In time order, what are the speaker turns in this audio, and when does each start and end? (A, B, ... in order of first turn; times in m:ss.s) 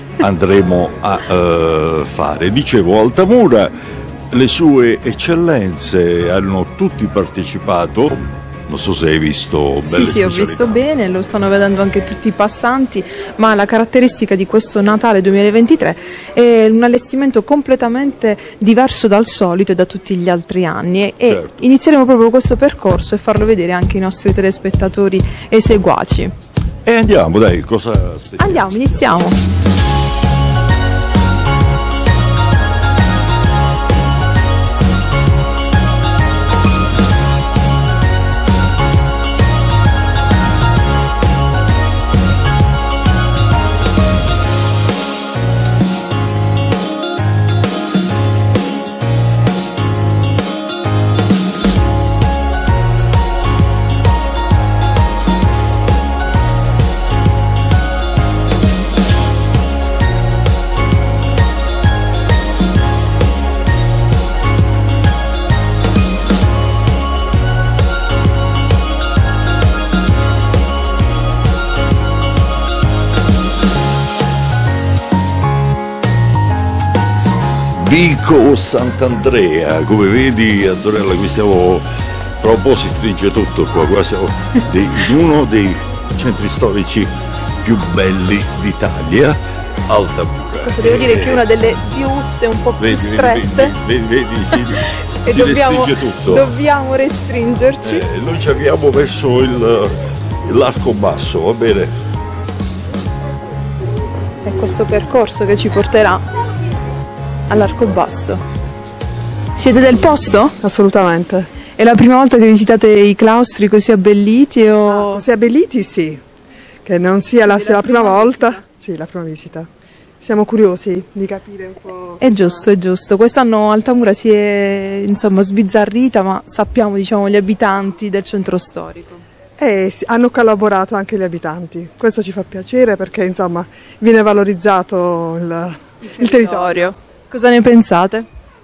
0:00.2-0:03.7 A
0:04.3-0:10.8 A
0:09.8-0:26.3 B
0:21.2-0:21.7 A
0:26.8-0:29.2 A
0:28.4-0:29.4 B
1:17.8-1:21.9 A
1:22.4-1:27.1 A
1:27.6-1:31.4 A
1:30.6-1:33.7 B
1:32.8-1:36.5 A
1:35.2-1:38.1 B
1:37.8-1:39.9 A
1:40.4-1:41.9 A
1:44.4-1:46.2 B
1:47.5-1:48.4 B
1:49.6-1:50.6 B
1:50.6-1:51.5 C
1:51.8-1:55.2 B
1:54.9-1:56.2 C
1:56.8-1:59.7 C
1:57.5-1:58.6 B
2:00.2-2:02.7 C
2:02.2-2:09.2 B
2:09.6-2:16.9 C
2:16.0-2:18.3 B